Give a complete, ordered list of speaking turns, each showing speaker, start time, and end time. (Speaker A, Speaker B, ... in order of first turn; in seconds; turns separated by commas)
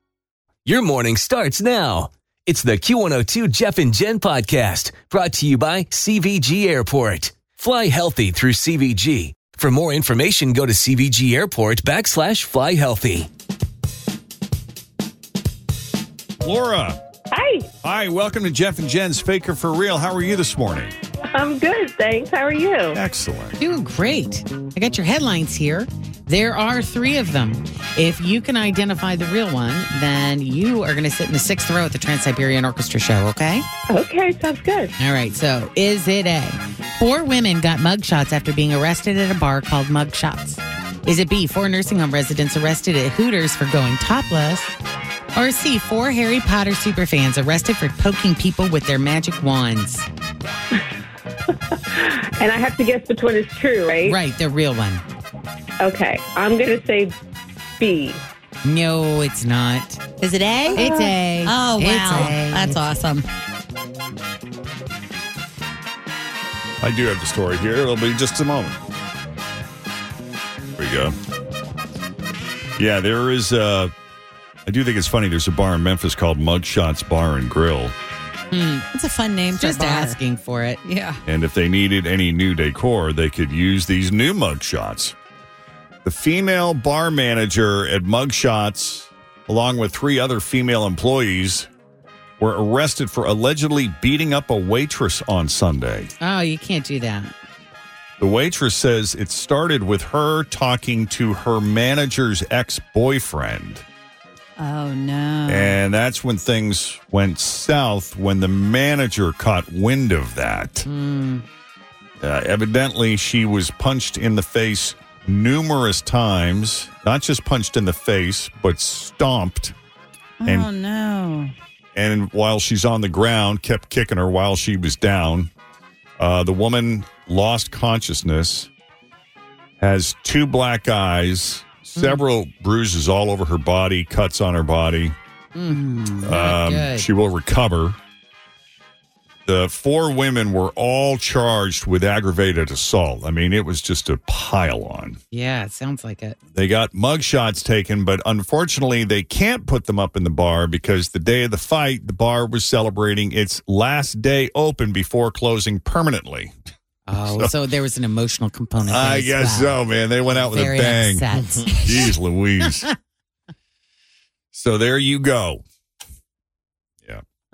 Speaker A: 0.7-13.3, Speaker B: 16.4-17.0, Speaker C: 17.3-17.6, Speaker B: 17.8-20.9, Speaker C: 21.3-23.0, Speaker B: 22.9-23.6, Speaker D: 23.6-33.6, Speaker C: 33.9-34.9, Speaker D: 35.0-44.7, Speaker D: 45.4-50.1, Speaker C: 52.0-54.1, Speaker D: 54.0-55.0, Speaker C: 55.8-57.1, Speaker C: 57.8-58.2, Speaker D: 58.6-60.2, Speaker E: 60.2-63.3, Speaker D: 60.7-62.8, Speaker B: 66.8-68.8, Speaker B: 70.8-71.2, Speaker B: 72.8-73.9, Speaker B: 74.7-78.0, Speaker D: 78.5-78.9, Speaker E: 78.9-80.2, Speaker D: 79.5-80.8, Speaker E: 80.8-81.2, Speaker B: 81.3-85.2, Speaker B: 86.0-91.7, Speaker B: 92.4-96.1, Speaker D: 96.2-97.3, Speaker B: 98.2-103.8, Speaker E: 104.6-105.8, Speaker B: 105.5-110.9, Speaker D: 110.8-111.5, Speaker B: 112.2-119.8, Speaker E: 120.4-121.5, Speaker B: 120.5-120.7, Speaker B: 122.0-125.5, Speaker B: 126.2-128.7, Speaker B: 129.8-135.2, Speaker D: 132.0-132.2, Speaker D: 135.6-137.1, Speaker B: 136.2-138.0, Speaker B: 139.5-145.2, Speaker D: 145.3-146.4, Speaker B: 146.5-156.5, Speaker D: 157.1-162.1, Speaker B: 157.1-157.5, Speaker B: 158.8-161.2, Speaker B: 161.8-162.9, Speaker B: 164.5-165.6